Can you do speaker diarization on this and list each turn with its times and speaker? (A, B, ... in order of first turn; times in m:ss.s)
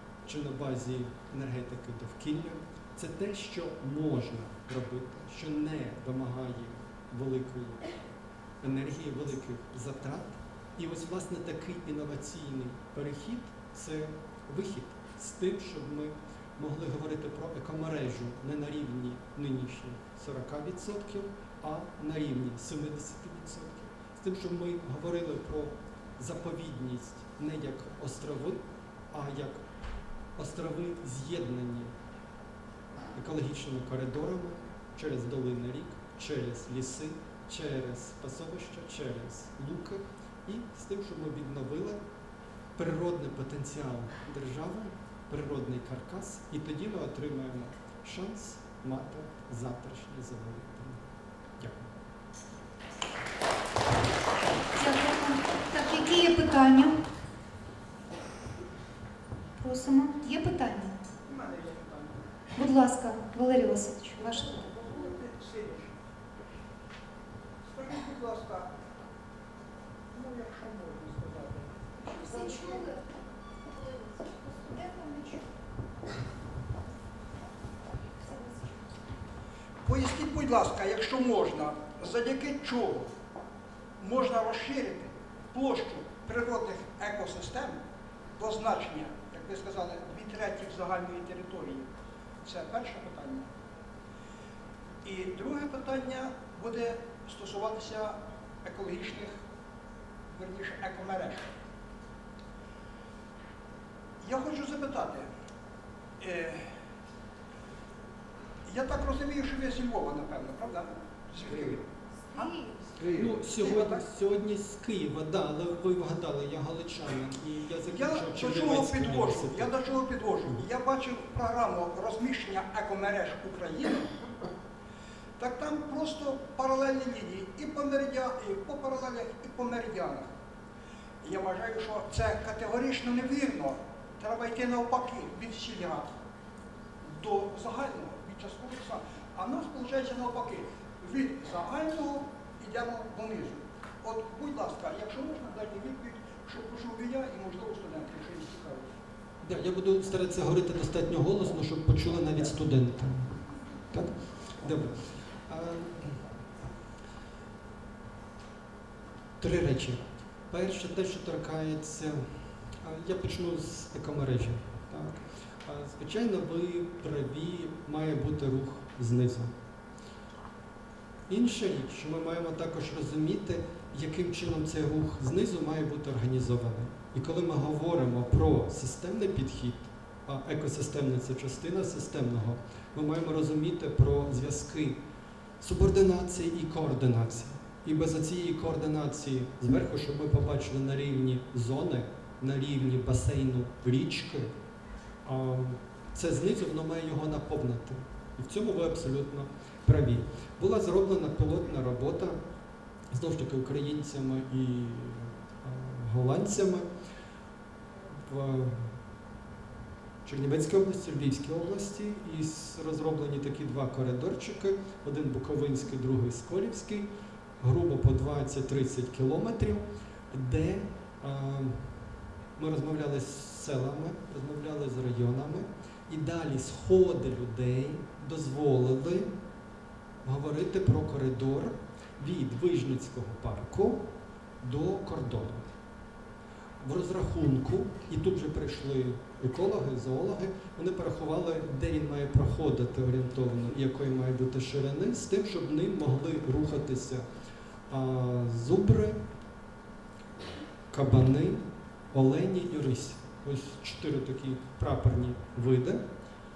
0:00.2-0:07.9 A
0:08.6-0:28.6 A
0:29.1-0:29.6 A
0:30.4-0:31.9 A
0:33.2-0:42.0 A
0:42.8-0:51.0 A
0:51.6-0:51.9 A
0:54.8-0:57.0 B
0:59.6-1:01.0 B
1:01.2-1:02.2 C
1:02.6-1:04.7 B
1:04.2-1:06.0 C
1:07.7-1:08.7 C
1:10.1-1:12.9 C
1:12.0-1:13.0 B
1:13.8-1:15.4 B
1:19.8-1:23.1 C
1:24.0-1:27.8 C
1:28.4-1:31.9 C
1:32.4-1:33.5 C
1:35.0-1:39.4 C
1:40.3-1:41.5 C
1:44.2-1:45.3 C
1:46.2-1:46.8 C
1:48.6-1:54.0 C
1:52.3-1:52.8 B
1:53.1-1:59.7 A
1:57.9-2:04.2 C
2:05.4-2:10.3 C
2:11.2-2:16.1 C
2:17.0-2:28.9 C
2:29.4-2:33.4 A
2:33.9-2:36.2 A
2:39.4-2:42.3 A
2:42.8-2:49.5 A
2:51.3-3:05.0 A
3:05.6-3:14.5 A
3:15.2-3:22.4 A
3:23.1-3:26.9 A
3:28.2-3:28.9 A
3:30.2-3:37.1 A
3:37.6-3:42.1 A
3:42.6-3:49.3 A
3:50.2-3:54.1 A
3:54.6-3:55.6 A
3:56.8-4:07.2 A
4:07.9-4:09.2 A
4:10.9-4:16.0 A